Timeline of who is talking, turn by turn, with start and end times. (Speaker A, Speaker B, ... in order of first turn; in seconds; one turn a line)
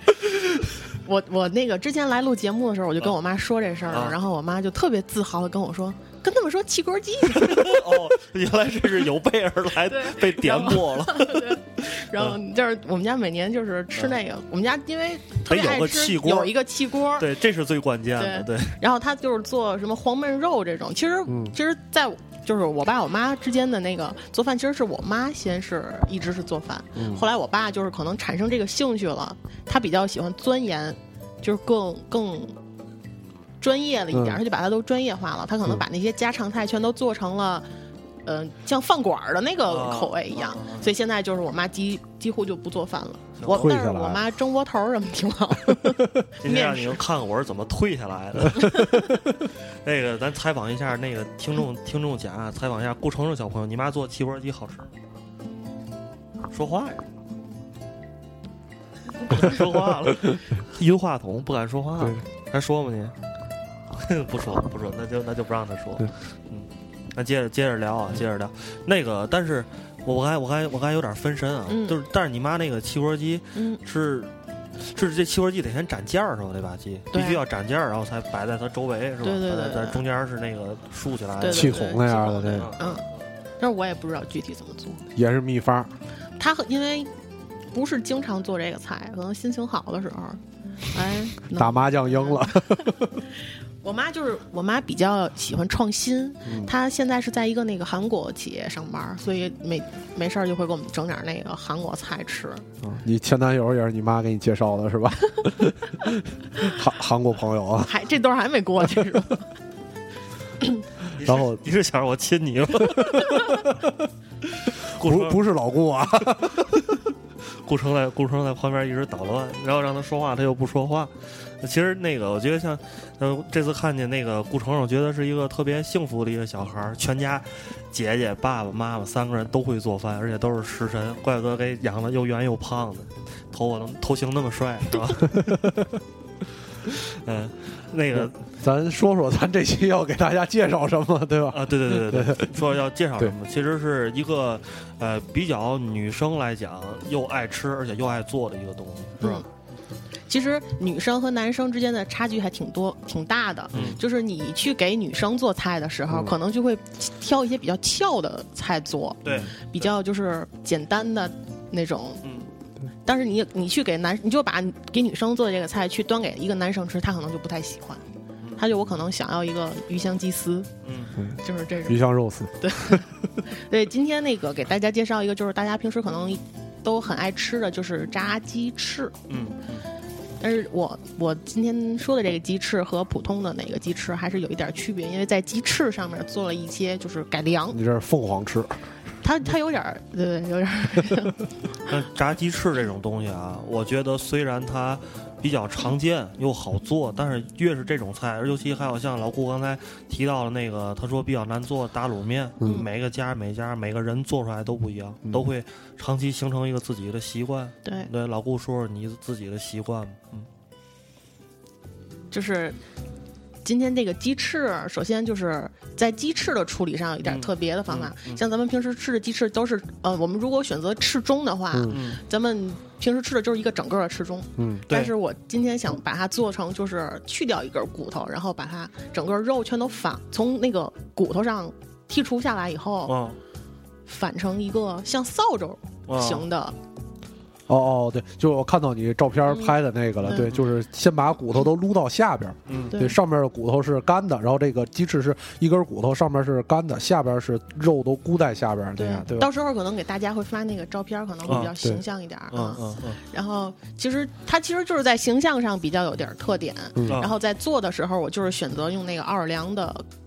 Speaker A: 1.0-7.9
Speaker B: 3.9-4.2
Speaker B: 7.3-12.4
Speaker A: 9.9-17.3
Speaker B: 15.5-18.8
Speaker A: 18.2-32.5
Speaker C: 21.3-21.6
Speaker C: 26.9-27.2
Speaker A: 33.6-37.7
Speaker C: 34.1-34.4
Speaker A: 38.2-47.0
Speaker B: 39.7-40.9
Speaker B: 43.4-43.7
Speaker C: 43.5-44.2
Speaker C: 45.8-46.3
Speaker B: 46.4-54.9
Speaker C: 48.4-49.4
Speaker B: 56.5-57.0
Speaker B: 59.2-63.1
Speaker C: 62.0-62.2
Speaker B: 63.9-81.9
Speaker A: 71.7-72.0
Speaker A: 73.5-73.8
Speaker A: 77.1-77.4
Speaker A: 79.2-80.0
Speaker A: 81.4-83.0
Speaker C: 81.5-82.7
Speaker B: 82.5-83.0
Speaker A: 83.6-85.0
Speaker C: 85.1-85.9
Speaker A: 86.4-87.1
Speaker A: 87.7-102.7
Speaker C: 91.5-93.2
Speaker C: 96.5-96.7
Speaker C: 102.8-107.9
Speaker A: 107.8-109.5
Speaker B: 111.1-113.7
Speaker C: 111.2-111.6
Speaker C: 112.8-113.9
Speaker B: 114.7-115.4
Speaker C: 114.8-116.8
Speaker B: 116.4-135.7
Speaker C: 135.2-135.9
Speaker B: 136.9-138.3
Speaker C: 138.1-142.6
Speaker B: 141.5-149.4
Speaker A: 149.2-149.4
Speaker A: 150.3-162.2
Speaker B: 153.7-154.0
Speaker C: 156.1-156.3
Speaker B: 159.2-159.5
Speaker A: 163.0-168.0
Speaker A: 168.6-170.7
Speaker B: 170.8-171.1
Speaker C: 171.2-173.2
Speaker A: 171.4-172.0
Speaker A: 172.6-179.2
Speaker B: 179.3-179.8
Speaker A: 180.4-187.8
Speaker C: 187.7-188.8
Speaker A: 189.2-191.4
Speaker B: 191.8-210.5
Speaker C: 202.6-202.9
Speaker A: 207.8-208.1
Speaker A: 212.3-212.8
Speaker A: 213.6-233.1
Speaker B: 217.2-218.4
Speaker C: 221.7-222.0
Speaker B: 221.9-222.2
Speaker C: 224.6-224.8
Speaker B: 233.1-233.4
Speaker A: 234.1-236.8
Speaker B: 236.1-236.4
Speaker C: 237.7-249.5
Speaker A: 239.5-240.5
Speaker B: 242.7-242.9
Speaker A: 242.9-243.2
Speaker A: 249.0-260.0
Speaker B: 251.5-251.7
Speaker C: 251.5-252.0
Speaker B: 252.5-253.2
Speaker C: 256.9-257.3
Speaker B: 257.1-257.3